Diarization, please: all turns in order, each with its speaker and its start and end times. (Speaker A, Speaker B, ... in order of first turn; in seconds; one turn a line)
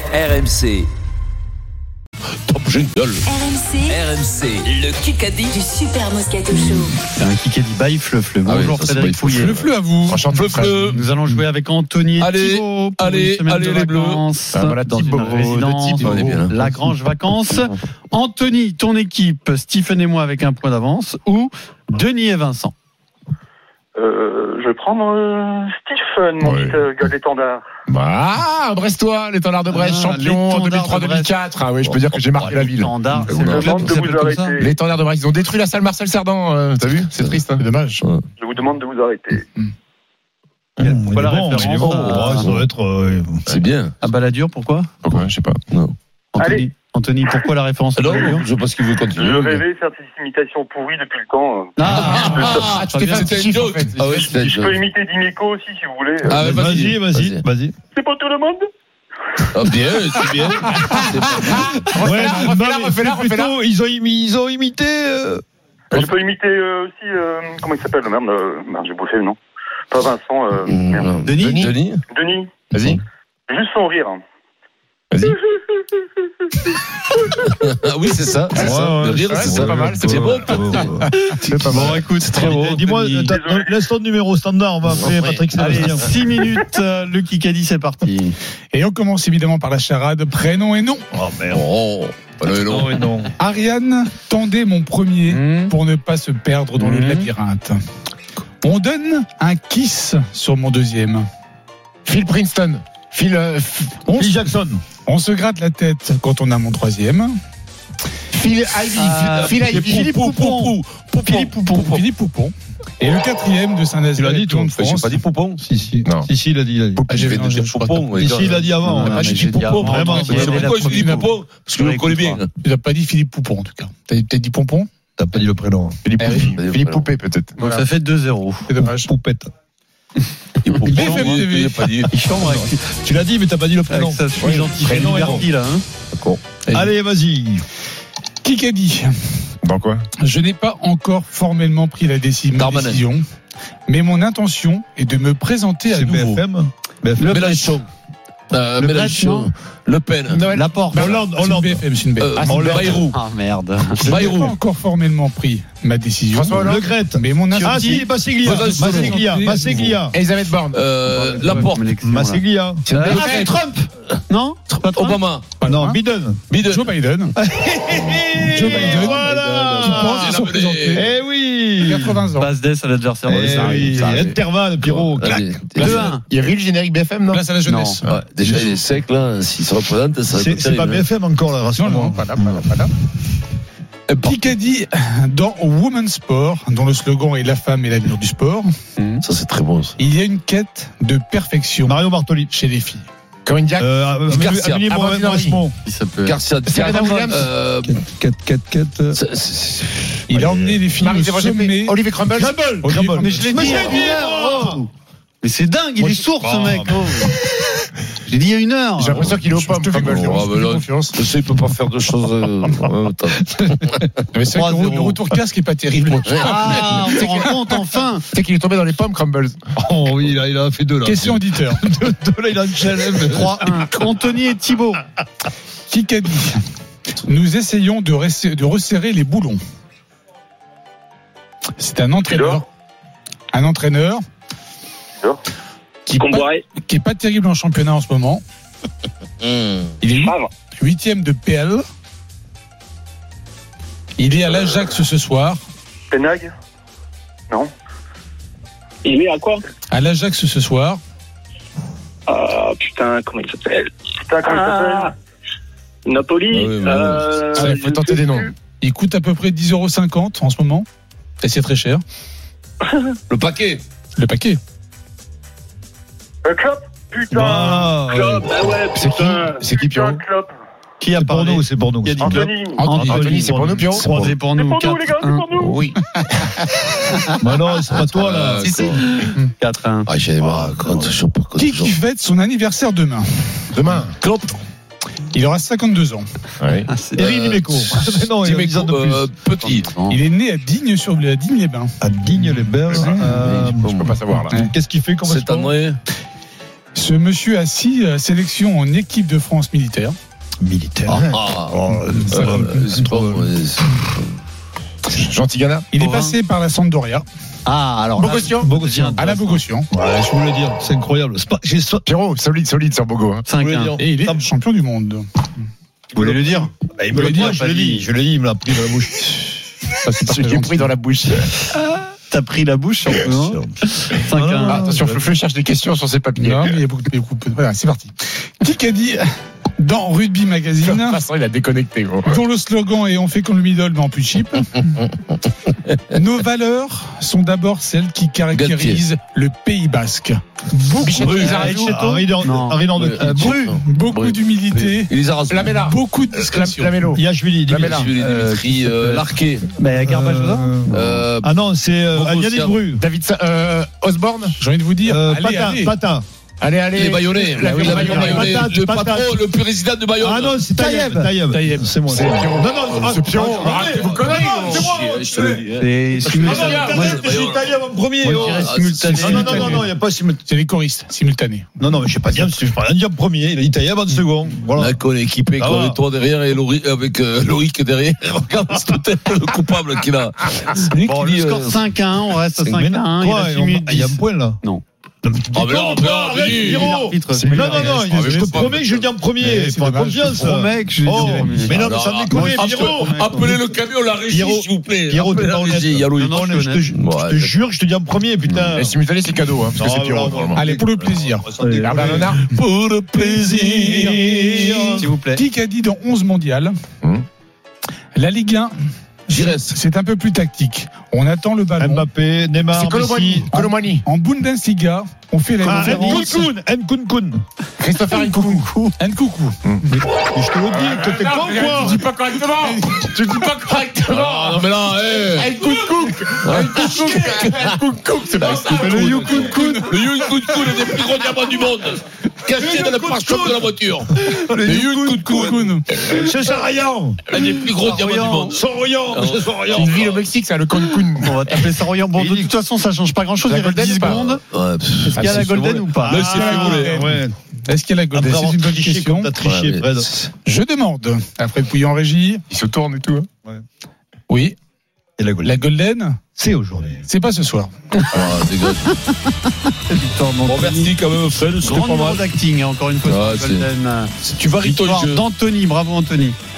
Speaker A: 0.1-0.9
Speaker A: 2.5-3.3
Speaker B: 3.3-3.9
Speaker A: 3.9-5.5
Speaker B: 5.1-6.9
Speaker A: 6.5-6.8
Speaker C: 7.2-9.6
Speaker A: 8.4-9.7
Speaker D: 9.3-10.2
Speaker E: 10.1-10.9
Speaker A: 10.3-11.0
Speaker C: 10.8-22.7
Speaker A: 12.2-14.2
Speaker E: 14.5-16.2
Speaker A: 16.0-16.6
Speaker F: 24.0-27.6
Speaker E: 26.4-26.8
Speaker E: 27.9-33.5
Speaker C: 29.7-31.3
Speaker C: 32.4-34.6
Speaker A: 33.3-33.9
Speaker F: 33.4-34.7
Speaker E: 34.6-38.0
Speaker F: 38.4-39.4
Speaker G: 40.8-43.5
Speaker C: 40.8-42.5
Speaker A: 41.8-42.7
Speaker A: 43.5-43.9
Speaker C: 44.0-44.9
Speaker E: 45.0-45.6
Speaker A: 45.2-46.0
Speaker C: 46.3-48.5
Speaker A: 48.0-49.6
Speaker F: 49.2-52.8
Speaker C: 51.8-53.4
Speaker A: 51.9-54.8
Speaker E: 52.7-54.3
Speaker F: 54.2-56.5
Speaker A: 56.2-57.4
Speaker G: 56.3-57.8
Speaker F: 58.0-58.6
Speaker A: 59.5-61.7
Speaker E: 60.7-63.5
Speaker G: 62.0-65.4
Speaker F: 65.9-69.4
Speaker F: 69.9-71.2
Speaker A: 70.7-72.0
Speaker C: 71.2-71.7
Speaker E: 71.4-71.7
Speaker F: 72.2-72.5
Speaker E: 72.7-73.0
Speaker F: 73.5-74.2
Speaker E: 75.1-75.4
Speaker A: 77.5-80.9
Speaker G: 78.5-81.1
Speaker E: 79.3-82.0
Speaker C: 81.3-83.4
Speaker A: 81.8-82.8
Speaker G: 82.4-86.1
Speaker F: 83.3-83.7
Speaker A: 85.0-86.0
Speaker C: 85.5-88.4
Speaker D: 88.7-91.0
Speaker G: 91.1-91.7
Speaker A: 91.5-93.2
Speaker G: 92.7-93.3
Speaker D: 93.4-97.8
Speaker C: 95.3-95.8
Speaker C: 96.8-97.3
Speaker D: 98.6-101.2
Speaker E: 102.0-104.0
Speaker D: 104.0-104.3
Speaker G: 104.2-104.8
Speaker D: 105.1-107.3
Speaker E: 108.3-110.2
Speaker C: 109.0-110.7
Speaker A: 109.1-112.0
Speaker C: 111.2-111.9
Speaker D: 111.2-115.2
Speaker A: 114.2-115.6
Speaker G: 114.2-114.7
Speaker G: 115.7-117.3
Speaker D: 117.1-118.5
Speaker A: 117.1-122.5
Speaker G: 118.1-119.3
Speaker C: 118.8-122.4
Speaker G: 119.8-120.7
Speaker D: 120.3-121.3
Speaker D: 122.5-124.9
Speaker G: 125.2-126.0
Speaker E: 126.0-127.8
Speaker D: 126.2-126.5
Speaker A: 126.5-127.1
Speaker C: 127.6-128.7
Speaker D: 128.7-129.1
Speaker G: 128.8-129.5
Speaker A: 130.6-132.1
Speaker C: 130.7-131.4
Speaker D: 130.8-131.9
Speaker C: 132.1-132.8
Speaker G: 132.3-135.5
Speaker C: 133.9-135.8
Speaker E: 134.4-134.9
Speaker A: 136.1-136.9
Speaker G: 136.7-137.7
Speaker D: 138.4-139.1
Speaker E: 139.6-140.1
Speaker D: 140.2-143.2
Speaker A: 142.6-143.0
Speaker D: 143.9-146.4
Speaker G: 145.9-147.4
Speaker C: 147.2-147.8
Speaker A: 147.3-147.9
Speaker A: 148.5-150.5
Speaker C: 148.8-149.5
Speaker E: 150.3-151.1
Speaker C: 150.5-151.2
Speaker G: 150.9-151.8
Speaker D: 151.1-153.0
Speaker A: 152.2-153.2
Speaker G: 152.4-153.1
Speaker C: 153.1-154.1
Speaker A: 154.0-154.6
Speaker D: 154.0-160.0
Speaker E: 156.3-156.9
Speaker G: 156.6-160.2
Speaker C: 157.6-158.1
Speaker A: 158.4-159.2
Speaker E: 160.1-160.8
Speaker A: 160.7-161.8
Speaker C: 161.1-165.2
Speaker G: 162.1-162.8
Speaker E: 162.9-163.2
Speaker A: 163.0-163.6
Speaker D: 163.2-163.5
Speaker A: 164.7-165.5
Speaker D: 165.6-166.0
Speaker G: 165.6-166.4
Speaker A: 166.5-166.9
Speaker D: 166.7-167.4
Speaker G: 167.4-172.2
Speaker D: 168.5-171.1
Speaker A: 168.6-171.1
Speaker D: 171.8-172.5
Speaker C: 172.4-174.3
Speaker G: 173.3-175.5
Speaker D: 173.4-174.2
Speaker A: 173.8-174.3
Speaker A: 174.8-176.2
Speaker C: 175.8-176.2
Speaker E: 175.8-177.4
Speaker D: 177.3-178.1
Speaker C: 177.7-178.0
Speaker A: 178.1-181.1
Speaker G: 178.5-178.8
Speaker G: 180.3-182.3
Speaker D: 181.8-182.9
Speaker A: 182.4-182.7
Speaker D: 184.1-188.7
Speaker C: 189.0-189.2
Speaker A: 189.2-189.9
Speaker D: 190.0-192.0
Speaker G: 191.8-192.5
Speaker D: 192.5-193.1
Speaker E: 193.5-193.9
Speaker G: 193.8-195.7
Speaker A: 194.3-195.1
Speaker E: 195.1-195.6
Speaker C: 195.8-196.4
Speaker A: 196.2-198.0
Speaker E: 196.7-197.5
Speaker G: 197.8-199.2
Speaker A: 199.1-200.7
Speaker D: 200.3-202.0
Speaker E: 201.0-202.6
Speaker G: 202.3-204.8
Speaker D: 202.8-203.5
Speaker C: 203.2-204.9
Speaker C: 205.4-207.3
Speaker G: 206.0-207.0
Speaker C: 208.1-209.4
Speaker E: 209.0-210.9
Speaker D: 209.5-211.1
Speaker A: 210.0-214.1
Speaker D: 214.5-217.4
Speaker G: 214.6-215.2
Speaker A: 216.3-216.7
Speaker C: 216.4-218.2
Speaker E: 216.7-217.4
Speaker E: 218.3-219.6
Speaker G: 219.8-223.8
Speaker D: 221.1-221.8
Speaker C: 223.3-225.0
Speaker D: 225.9-226.6
Speaker D: 227.2-229.6
Speaker D: 231.8-232.6
Speaker F: 232.3-232.6
Speaker D: 233.5-234.2
Speaker D: 236.1-238.4
Speaker H: 236.2-236.6
Speaker A: 239.4-239.8
Speaker D: 240.0-241.8
Speaker H: 240.2-240.5
Speaker D: 244.2-245.6
Speaker F: 246.1-246.5
Speaker H: 249.0-249.6
Speaker D: 249.9-251.0
Speaker H: 252.3-253.9
Speaker F: 254.3-255.1
Speaker H: 254.4-255.1
Speaker H: 256.1-258.5
Speaker A: 256.5-257.4
Speaker E: 257.5-258.5
Speaker D: 258.8-260.9
Speaker D: 261.4-262.0
Speaker A: 263.3-263.8
Speaker D: 264.2-264.6
Speaker F: 266.5-267.9
Speaker G: 267.3-268.9
Speaker H: 268.1-269.6
Speaker E: 268.9-270.2
Speaker F: 269.8-270.5
Speaker C: 271.0-275.5
Speaker G: 271.2-274.3
Speaker F: 272.2-272.8
Speaker D: 272.8-273.1
Speaker E: 273.1-274.2
Speaker F: 274.6-275.8
Speaker A: 275.6-275.9
Speaker G: 277.4-279.0
Speaker A: 278.0-279.0
Speaker C: 278.6-280.1
Speaker A: 280.1-282.0
Speaker G: 280.4-281.2
Speaker D: 281.6-283.2
Speaker E: 283.7-284.2
Speaker A: 284.2-284.6
Speaker D: 285.3-286.2
Speaker E: 286.6-286.9
Speaker C: 286.9-287.5
Speaker G: 287.1-289.3
Speaker A: 288.2-289.9
Speaker C: 289.6-290.2
Speaker D: 290.1-291.9
Speaker G: 292.0-294.0
Speaker D: 292.9-293.4
Speaker A: 293.2-294.4
Speaker E: 294.0-294.6
Speaker G: 294.5-295.7
Speaker A: 295.2-296.0
Speaker D: 296.9-300.1
Speaker G: 300.6-303.5
Speaker A: 301.3-304.2
Speaker D: 302.4-302.7
Speaker E: 305.1-305.9
Speaker D: 305.9-307.2
Speaker C: 306.0-306.4
Speaker C: 307.7-309.6
Speaker E: 308.2-308.7
Speaker G: 308.6-309.2
Speaker D: 309.2-309.9
Speaker G: 309.9-312.0
Speaker E: 312.1-313.4
Speaker C: 313.5-314.0
Speaker G: 313.6-314.5
Speaker D: 314.0-315.2
Speaker C: 316.1-318.1
Speaker G: 316.1-319.6
Speaker D: 317.2-317.5
Speaker D: 320.0-320.9
Speaker E: 320.2-321.5
Speaker C: 321.7-324.9
Speaker G: 323.3-323.7
Speaker G: 324.3-325.1
Speaker E: 324.7-326.8
Speaker D: 326.4-329.2
Speaker D: 329.8-331.2
Speaker E: 330.8-332.4
Speaker D: 332.3-335.0
Speaker D: 336.1-341.9
Speaker A: 338.5-339.0
Speaker E: 341.0-341.7
Speaker A: 341.2-341.7
Speaker C: 341.2-343.6
Speaker G: 341.7-343.6
Speaker A: 342.9-345.8
Speaker D: 343.7-345.1
Speaker E: 345.5-348.1
Speaker D: 345.7-347.0
Speaker G: 347.1-348.1
Speaker A: 347.8-349.7
Speaker C: 348.2-350.7
Speaker G: 350.0-353.0
Speaker A: 350.9-351.5
Speaker A: 352.1-352.8
Speaker E: 353.0-354.6
Speaker D: 354.6-355.9
Speaker G: 355.0-356.2
Speaker E: 356.6-358.6
Speaker A: 356.9-360.6
Speaker C: 357.6-358.4
Speaker G: 357.8-359.4
Speaker G: 360.2-364.2
Speaker C: 360.8-361.4
Speaker D: 361.5-362.0
Speaker E: 362.0-365.4
Speaker A: 363.9-365.9
Speaker D: 364.2-365.1
Speaker C: 365.8-367.3
Speaker E: 366.3-367.1
Speaker A: 366.4-367.8
Speaker G: 366.4-370.4
Speaker C: 368.2-369.9
Speaker A: 368.3-369.7
Speaker D: 369.3-369.9
Speaker D: 370.5-371.7
Speaker G: 371.8-375.0
Speaker A: 374.7-381.8
Speaker G: 375.6-376.0
Speaker C: 381.0-384.8
Speaker G: 382.7-384.6
Speaker G: 385.2-393.2
Speaker A: 385.5-389.1
Speaker C: 386.4-388.2
Speaker D: 389.4-390.3
Speaker C: 390.3-393.6
Speaker A: 391.5-396.4
Speaker G: 394.3-398.9
Speaker C: 396.1-396.9
Speaker A: 396.9-397.6
Speaker A: 398.5-398.7
Speaker E: 398.7-400.6
Speaker G: 399.8-402.4
Speaker D: 400.5-401.5
Speaker E: 401.7-402.4
Speaker A: 402.0-404.8
Speaker G: 403.1-405.1
Speaker D: 403.7-404.3
Speaker D: 404.9-406.7
Speaker C: 405.0-405.4
Speaker D: 408.1-408.7
Speaker A: 409.3-409.8
Speaker D: 409.6-412.1
Speaker G: 411.8-413.7
Speaker E: 412.7-414.0
Speaker D: 414.1-416.5
Speaker G: 415.6-417.4
Speaker E: 417.8-418.7
Speaker D: 418.3-419.6
Speaker G: 419.9-422.1
Speaker E: 420.7-424.6
Speaker D: 422.6-424.2
Speaker A: 424.1-425.6
Speaker D: 425.4-430.8
Speaker E: 425.7-427.4
Speaker A: 426.4-427.8
Speaker A: 428.4-436.3
Speaker C: 428.8-429.8
Speaker G: 432.5-434.5
Speaker D: 434.6-435.9
Speaker G: 435.9-437.4
Speaker A: 437.3-440.2
Speaker C: 437.8-438.6
Speaker G: 438.5-440.1
Speaker E: 439.7-441.6
Speaker C: 441.2-444.4
Speaker G: 442.2-442.5
Speaker E: 443.4-444.4
Speaker A: 444.5-447.1
Speaker C: 445.0-446.3
Speaker E: 445.2-445.6
Speaker G: 446.0-447.4
Speaker D: 446.2-447.2
Speaker D: 447.7-449.3
Speaker G: 448.1-450.2
Speaker A: 449.4-450.3
Speaker D: 450.4-452.4
Speaker E: 452.5-453.3
Speaker D: 454.3-454.6
Speaker G: 455.2-455.6
Speaker D: 455.4-456.2
Speaker G: 456.4-457.1
Speaker D: 457.1-457.7
Speaker A: 458.1-458.9
Speaker C: 459.9-460.9
Speaker A: 460.5-462.2
Speaker C: 461.6-466.4
Speaker A: 463.1-463.7
Speaker A: 464.2-465.2